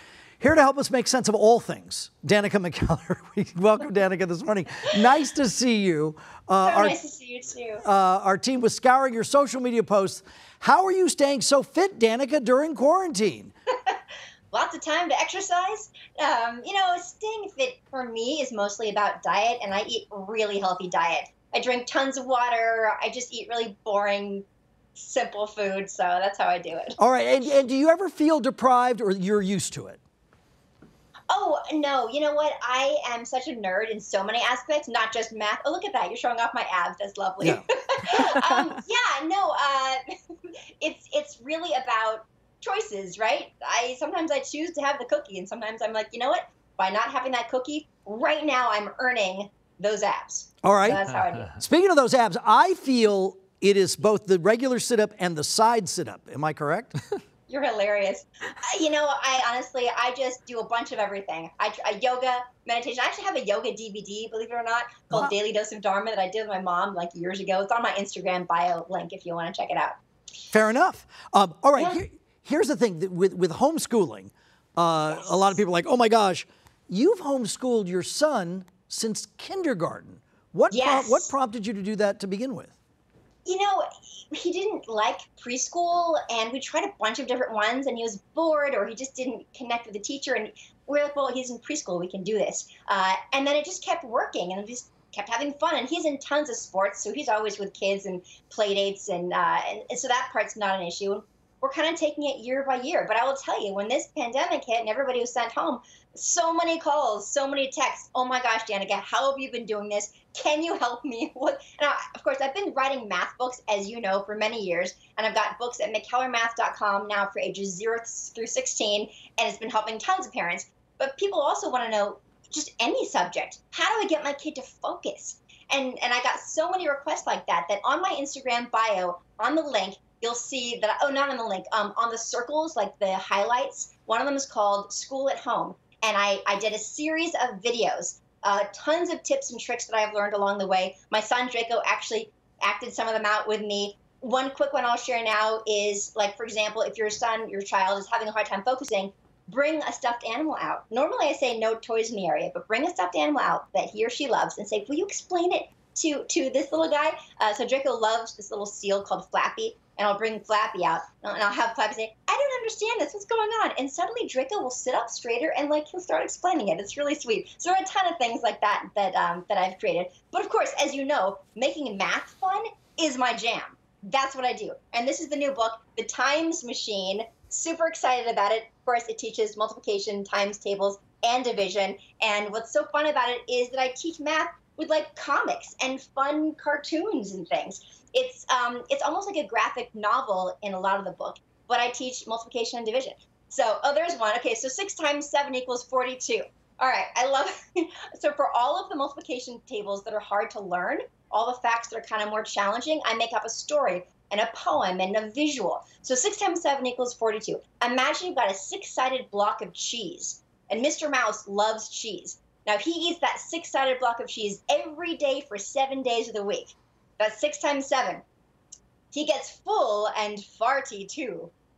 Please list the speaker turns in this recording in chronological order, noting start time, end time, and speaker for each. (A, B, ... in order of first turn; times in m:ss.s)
0:00.4-0:06.9 A
0:06.6-0:07.8 B
0:07.8-0:13.5 A
0:14.5-0:27.0 B
0:27.0-0:30.0 A
0:31.3-0:40.0 B
0:37.4-0:38.7 A
0:40.8-0:51.6 B
0:50.6-0:57.0 A
0:57.5-1:10.0 B
1:10.5-1:22.7 A
1:11.8-1:12.0 B
1:15.1-1:15.6 B
1:20.7-1:21.3 B
1:23.4-3:38.2 B
3:39.1-3:41.5 B